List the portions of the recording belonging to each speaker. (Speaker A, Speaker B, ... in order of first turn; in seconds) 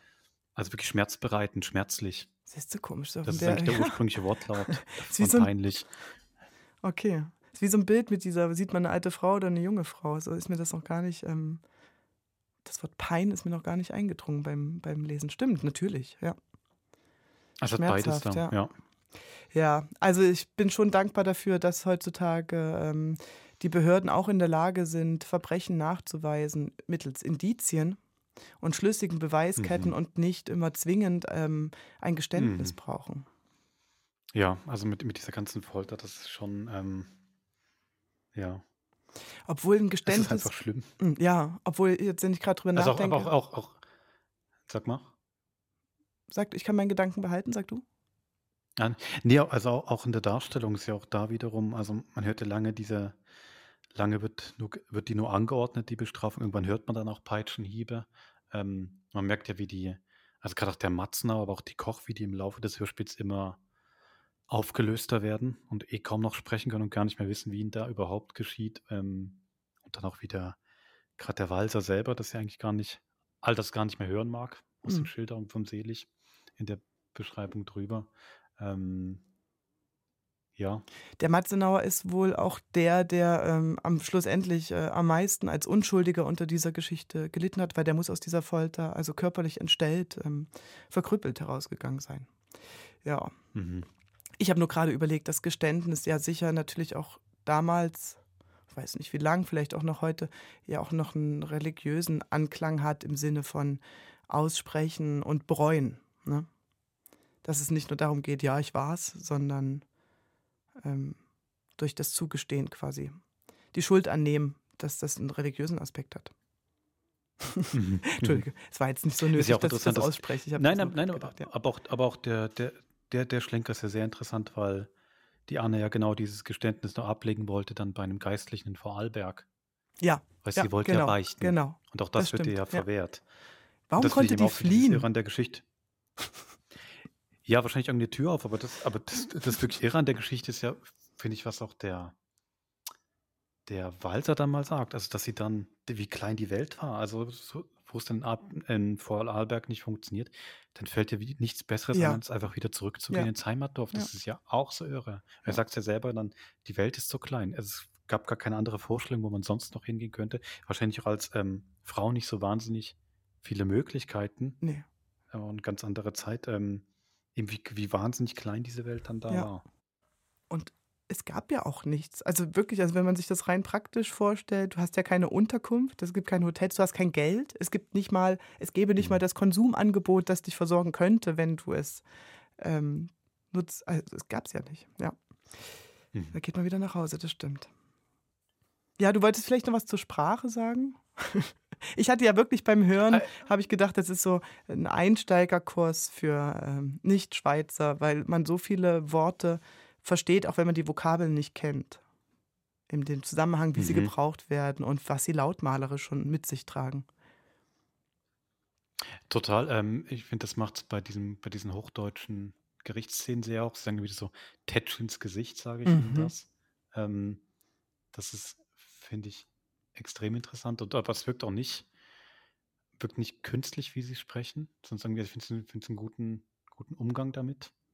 Speaker A: 0.6-2.3, 3.2-5.9, 17.6-18.7, 29.6-29.9, 32.4-32.8, 34.3-37.1, 38.3-38.6, 40.0-40.9, 42.7-43.8, 44.7-45.1, 48.8-53.2, 53.9-63.6, 64.5-70.6, 71.2-79.2, 80.5-80.8, 93.5-93.9, 117.7-118.4, 119.3-124.9, 125.5-129.4, 130.4-133.2, 134.0-135.6, 137.4-142.1, 143.7-164.6, 165.3-166.8, 167.3-169.6, 203.8-204.1, 209.3-217.4, 218.1-221.9, 223.0-227.7
Speaker B: 2.5-4.0, 4.7-5.5, 6.8-11.6, 12.6-16.4, 17.7-18.6, 19.5-28.0, 28.6-33.2, 39.5-43.3, 46.3-47.8, 81.2-92.3, 93.0-93.3, 94.4-98.2, 98.7-106.5, 107.4-109.8, 110.8-111.2, 111.8-113.2, 113.7-116.3, 117.5-121.5, 130.0-132.8, 133.9-135.1, 151.9-152.2, 170.5-182.0, 182.6-185.7, 186.3-187.7, 189.0-202.0, 202.9-207.1, 215.8-216.3